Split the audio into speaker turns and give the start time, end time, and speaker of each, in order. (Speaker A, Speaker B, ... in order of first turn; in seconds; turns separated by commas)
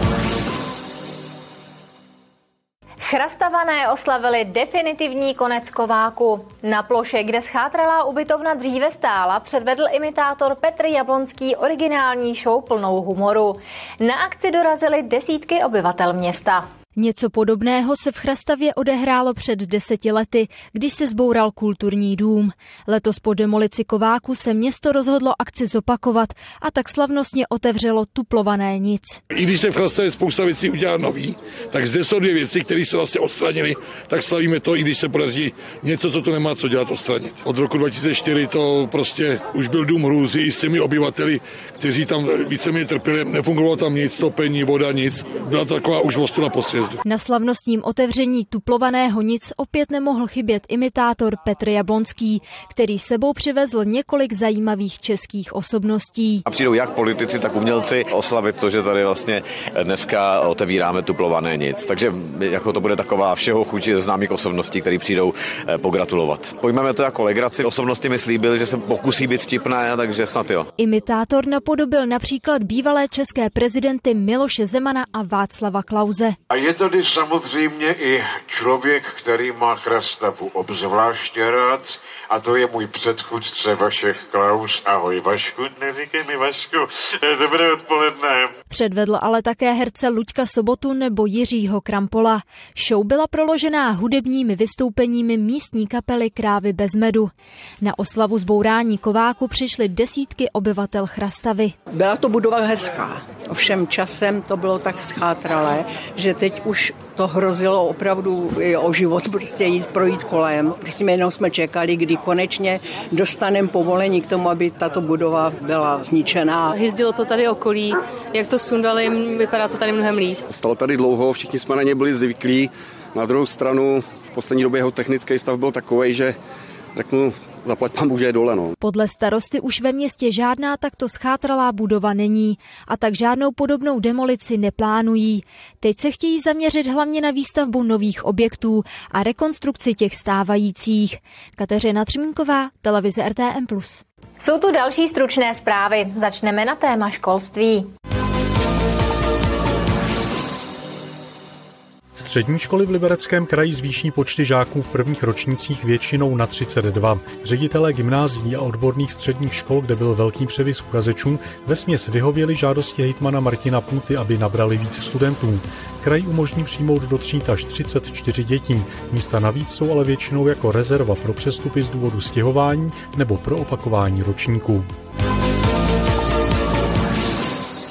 Speaker A: 3.0-16.6, Speaker B: 16.9-29.2, Speaker C: 29.3-47.0, Speaker B: 47.0-56.4, Speaker D: 56.5-70.7, Speaker B: 70.8-76.4, Speaker E: 76.5-88.5, Speaker B: 88.7-101.7, Speaker F: 101.9-116.7, Speaker G: 116.7-120.4, Speaker H: 120.5-126.4, Speaker H: 126.9-128.7, Speaker B: 128.8-144.0, Speaker A: 144.4-147.9, Speaker I: 152.2-174.9